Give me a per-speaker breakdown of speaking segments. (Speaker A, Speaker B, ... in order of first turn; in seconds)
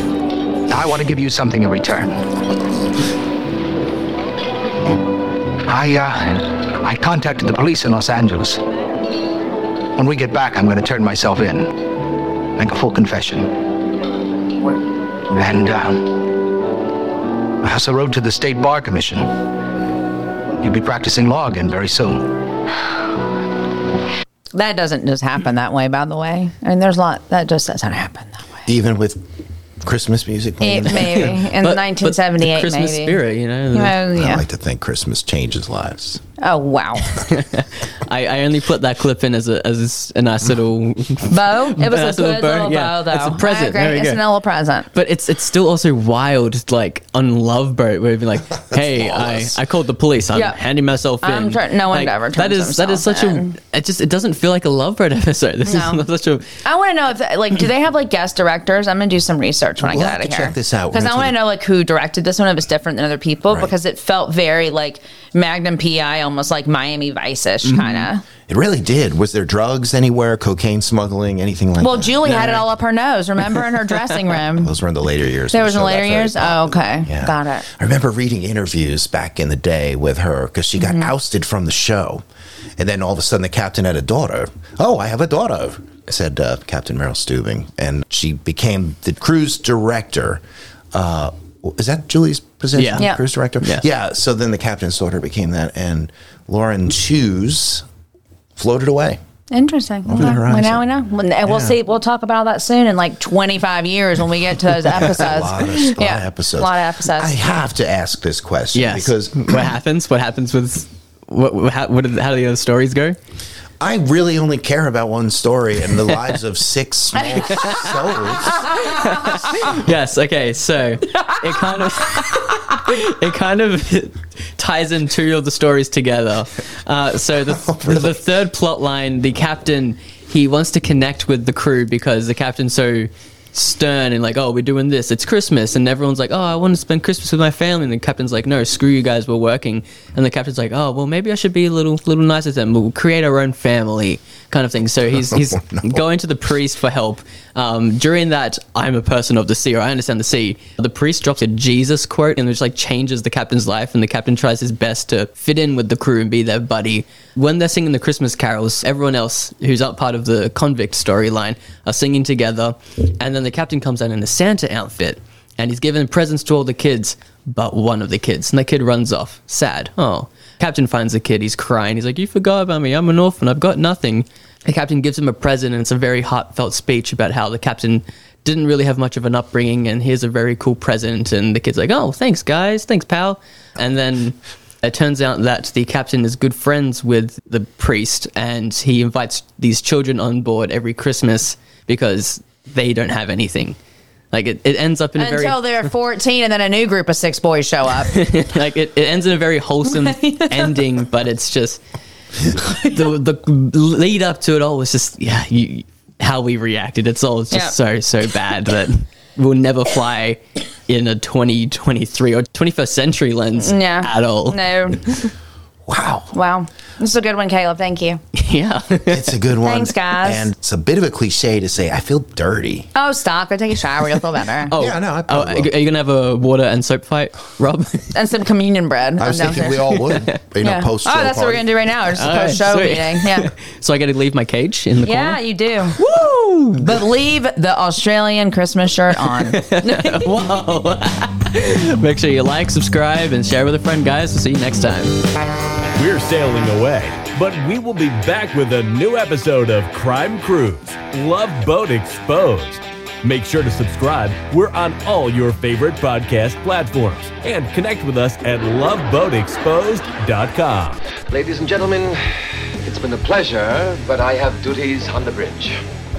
Speaker A: 0.7-2.2, 5.7-8.6, 10.0-11.8, 12.6-13.5, 15.3-16.2, 17.6-19.3, 20.6-22.4
Speaker B: 24.5-28.7, 30.6-33.2, 33.7-34.4, 36.4-37.2, 41.2-44.9, 50.3-50.6, 51.2-53.5, 55.6-56.0, 56.6-68.3, 71.8-74.7, 75.5-77.7, 80.8-81.1, 99.5-107.3, 195.2-198.1, 199.9-200.8, 213.6-215.1, 216.3-218.2, 219.6-220.5, 222.9-224.7, 228.1-229.8, 230.6-233.5, 235.0-236.0, 236.8-240.3
Speaker C: 28.7-29.3, 29.8-31.3, 34.1-36.2, 48.7-49.5, 59.8-61.5, 68.5-72.7, 74.5-82.2, 82.8-97.8, 98.6-99.2, 100.1-100.9, 101.5-101.8, 104.9-109.7, 113.8-118.7, 127.6-128.2, 145.1-146.0, 215.9-216.3, 219.1-222.9, 224.7-225.7, 229.2-231.8
Speaker D: 30.9-34.0, 37.1-44.2, 44.9-56.5, 92.8-93.1, 108.7-113.2, 117.5-117.9, 118.8-193.8, 194.3-195.6, 198.1-201.8, 202.5-214.6, 218.3-219.3, 224.7-228.1, 230.0-230.4, 232.2-235.4, 236.0-236.9, 239.5-245.2
Speaker E: 246.0-261.0
Speaker F: 261.3-262.2, 262.8-265.8